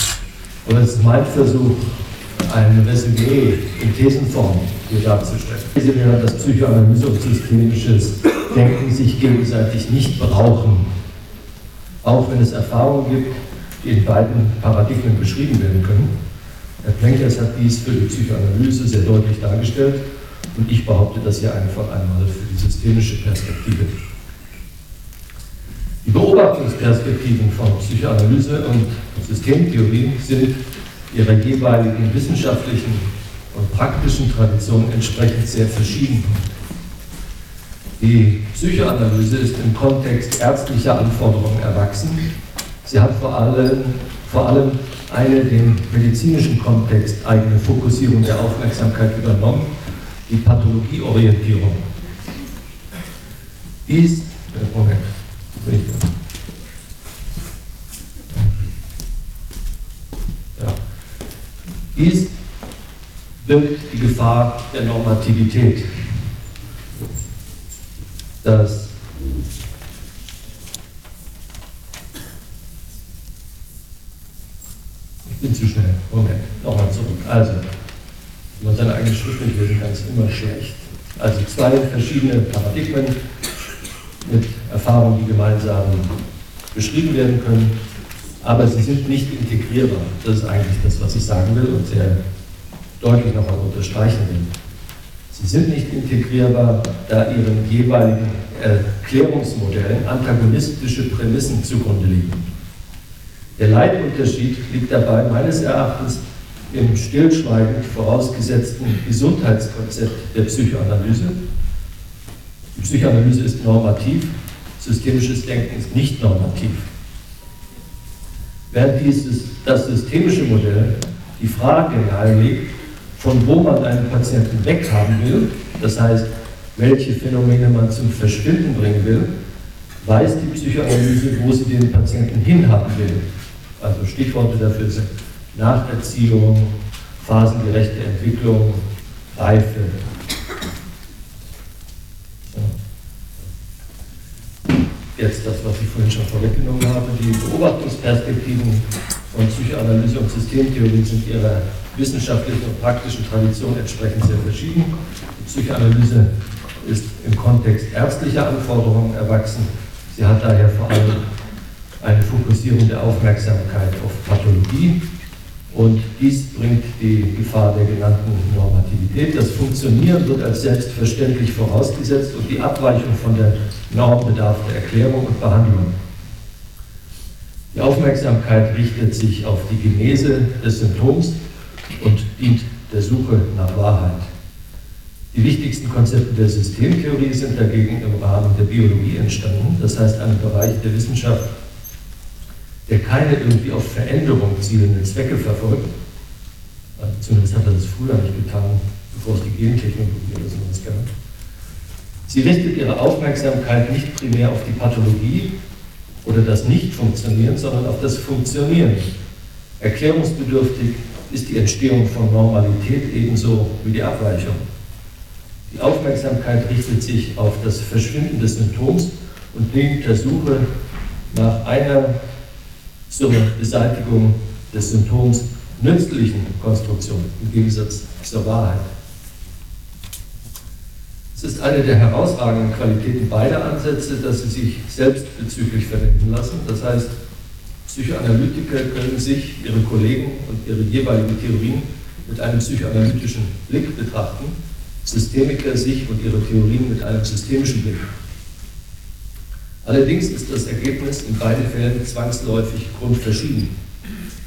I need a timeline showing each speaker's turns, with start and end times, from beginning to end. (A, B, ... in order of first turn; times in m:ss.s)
0:00.6-0:10.9 A
0:12.0-0:16.1 A
0:16.8-0:24.0 A
0:26.0-0:36.4 A
0:38.0-0:42.3 A
0:42.8-0:49.7 A
0:50.3-0:51.8 A
0:53.9-0:56.1 A
0:58.3-0:58.6 A
1:01.9-1:02.3 A
1:03.4-1:06.1 A
1:08.4-1:08.9 A
1:15.3-1:17.6 A
1:18.6-1:23.2 A
1:24.2-1:26.2 A
1:26.7-1:27.8 A
1:28.4-1:32.2 A
1:33.0-1:34.5 A
1:35.3-1:42.5 A
1:43.6-1:51.4 A
1:52.8-1:56.9 A
1:58.7-2:02.6 A
2:03.2-2:09.3 A
2:10.0-2:13.2 A
2:13.8-2:18.8 A
2:19.4-2:20.0 A
2:25.1-2:36.3 A
2:36.8-2:41.2 A
2:42.0-2:45.0 A
2:45.7-2:55.9 A
2:57.7-3:01.4 A
3:02.0-3:04.3 A
3:05.3-3:11.4 A
3:12.9-3:15.9 A
3:17.0-3:21.1 A
3:22.3-3:25.5 A
3:26.2-3:29.1 A
3:29.8-3:34.6 A
3:35.7-3:40.7 A
3:41.3-3:42.2 A
3:43.1-3:48.9 A
3:51.4-3:57.1 A
3:57.9-4:08.1 A
4:09.8-4:13.7 A